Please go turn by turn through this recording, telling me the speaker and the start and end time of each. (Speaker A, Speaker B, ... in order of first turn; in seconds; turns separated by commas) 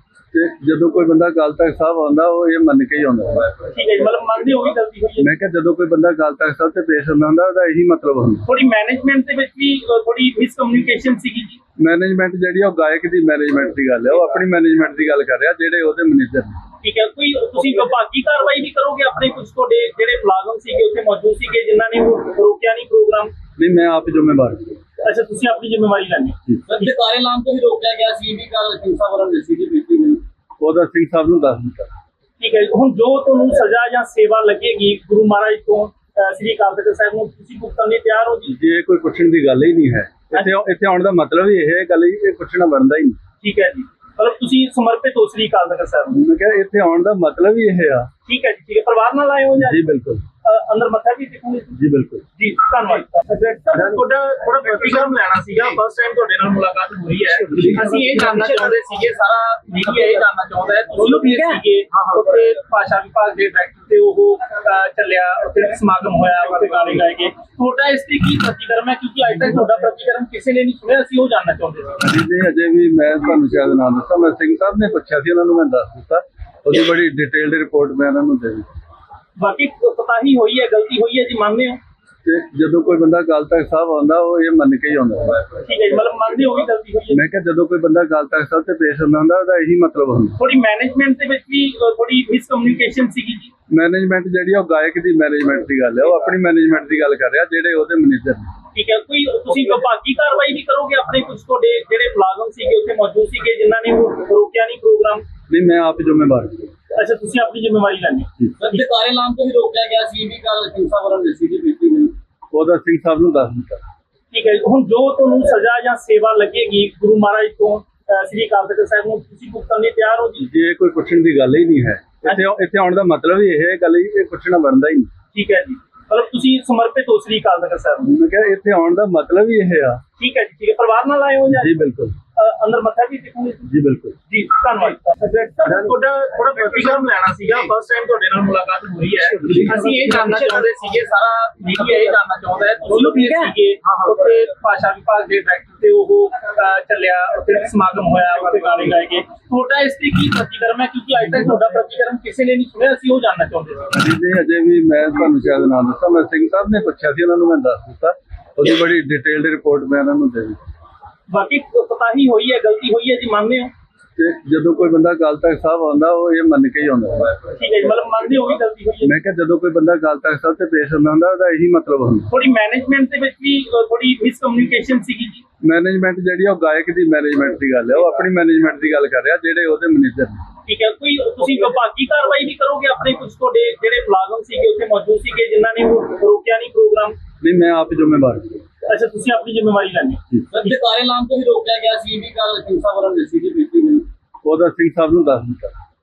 Speaker A: 0.3-3.5, Speaker B: 3.6-5.3, Speaker A: 5.2-8.4, Speaker B: 8.4-11.6, Speaker A: 11.8-16.6, Speaker B: 16.8-23.3, Speaker A: 23.6-24.8, Speaker B: 25.0-26.4, Speaker C: 26.6-30.2, Speaker A: 30.6-31.9, Speaker B: 32.4-38.5, Speaker A: 38.5-43.2, Speaker B: 43.4-46.2, Speaker A: 46.1-48.1, Speaker B: 48.2-49.9, Speaker A: 49.6-50.2, Speaker B: 50.4-51.8, Speaker A: 51.7-52.4, Speaker B: 52.4-72.0, Speaker A: 72.0-78.7, Speaker B: 79.4-81.8, Speaker A: 82.2-85.6, Speaker B: 85.6-87.2, Speaker A: 87.1-90.3, Speaker B: 90.4-93.5, Speaker A: 93.7-98.5, Speaker B: 98.7-105.2, Speaker A: 105.5-106.7, Speaker B: 106.9-108.3, Speaker C: 108.6-112.1, Speaker A: 112.5-113.8, Speaker B: 114.3-120.5, Speaker A: 120.4-125.1, Speaker B: 125.3-128.1, Speaker A: 128.0-130.0, Speaker B: 130.2-131.8, Speaker A: 131.6-132.2, Speaker B: 132.3-133.7, Speaker A: 133.7-134.3, Speaker B: 134.3-153.9, Speaker A: 153.9-160.6, Speaker B: 161.3-163.7, Speaker A: 164.2-167.5, Speaker B: 167.5-169.1, Speaker A: 169.0-172.3, Speaker B: 172.3-175.4, Speaker A: 175.6-180.4, Speaker B: 180.7-187.2, Speaker A: 187.4-188.6, Speaker B: 188.8-190.7, Speaker C: 190.5-194.0, Speaker A: 194.4-195.8